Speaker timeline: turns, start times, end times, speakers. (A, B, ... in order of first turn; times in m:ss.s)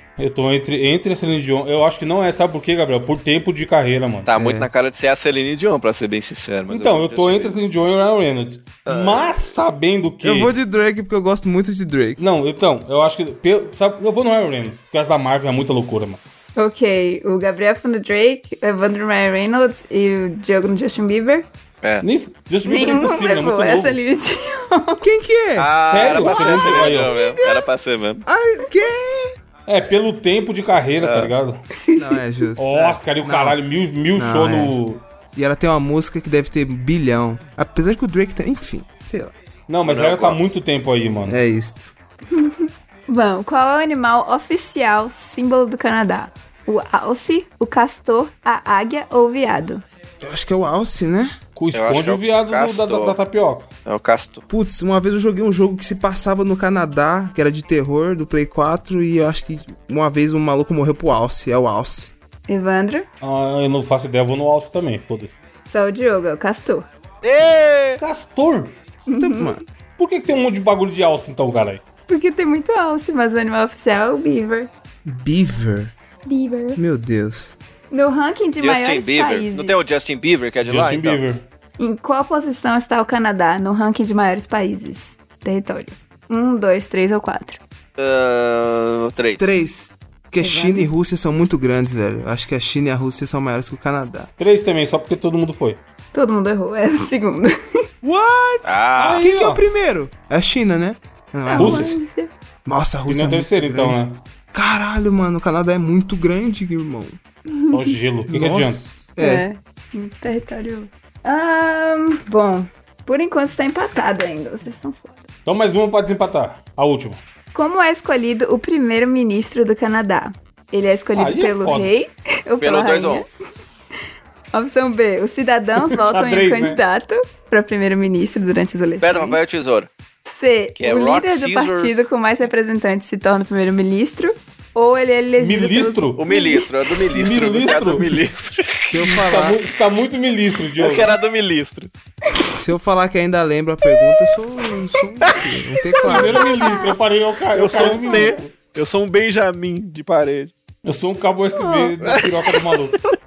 0:00.2-0:04.3 A
0:04.2-0:07.6 B
0:04.3-0:04.7 C
0:06.7-0:10.5 A
0:08.8-0:09.4 B
0:10.2-0:12.3 C
0:12.2-0:16.2 A
0:16.6-0:21.5 D
0:22.0-0:24.0 A
0:22.6-0:25.1 D
0:25.0-0:27.7 C
0:25.6-0:28.2 B
0:25.8-0:27.3 A
0:28.2-0:29.3 C
0:29.7-0:31.6 A
0:31.0-0:31.3 B
0:31.8-0:32.2 D
0:32.0-0:33.6 C
0:32.6-0:35.0 A
0:34.1-0:34.8 C
0:35.3-0:39.3 C
0:39.7-0:41.4 A
0:39.8-0:40.6 B
0:41.2-0:41.9 C
0:42.3-0:49.8 D
0:50.2-0:51.4 C
0:51.6-0:53.7 A
0:51.7-0:53.2 B
0:53.8-0:54.4 B
0:54.5-1:02.1 C
1:02.5-1:03.1 D
1:03.2-1:05.4 A
1:05.7-1:06.8 D
1:07.2-1:08.0 B
1:08.0-1:08.8 A
1:09.1-1:09.6 D
1:09.2-1:09.6 C
1:10.0-1:11.8 A
1:12.1-1:14.7 D
1:15.0-1:15.9 C
1:16.2-1:16.8 D
1:16.8-1:17.6 C
1:17.9-1:19.8 D
1:18.6-1:21.2 B
1:20.6-1:21.4 A
1:21.8-1:27.6 D
1:28.0-1:29.5 B
1:29.4-1:34.3 C
1:30.4-1:30.9 D
1:34.4-1:35.8 A
1:36.1-1:37.8 D
1:38.0-1:42.0 C
1:38.6-1:39.2 B
1:39.0-1:39.6 A
1:41.4-1:42.3 D
1:41.6-1:41.9 A
1:42.6-1:47.2 C
1:43.1-1:44.2 A
1:47.5-1:47.9 D
1:47.7-1:48.9 A
1:48.3-1:49.4 C
1:49.2-1:55.2 D
1:55.4-1:57.2 A
1:57.5-2:03.3 D
2:01.1-2:01.9 A
2:02.6-2:03.2 B
2:04.5-2:09.4 D
2:05.8-2:06.8 A
2:09.0-2:09.9 B
2:10.2-2:16.7 D
2:10.8-2:12.1 B
2:15.4-2:16.2 A
2:16.2-2:19.2 B
2:17.1-2:18.2 A
2:18.9-2:19.6 C
2:19.0-2:21.1 A
2:20.8-2:21.9 B
2:22.5-2:26.5 C
2:25.9-2:27.0 D
2:26.0-2:28.5 A
2:27.5-2:30.5 B
2:27.8-2:28.4 D
2:30.8-2:33.0 A
2:31.5-2:31.9 D
2:32.0-2:32.6 B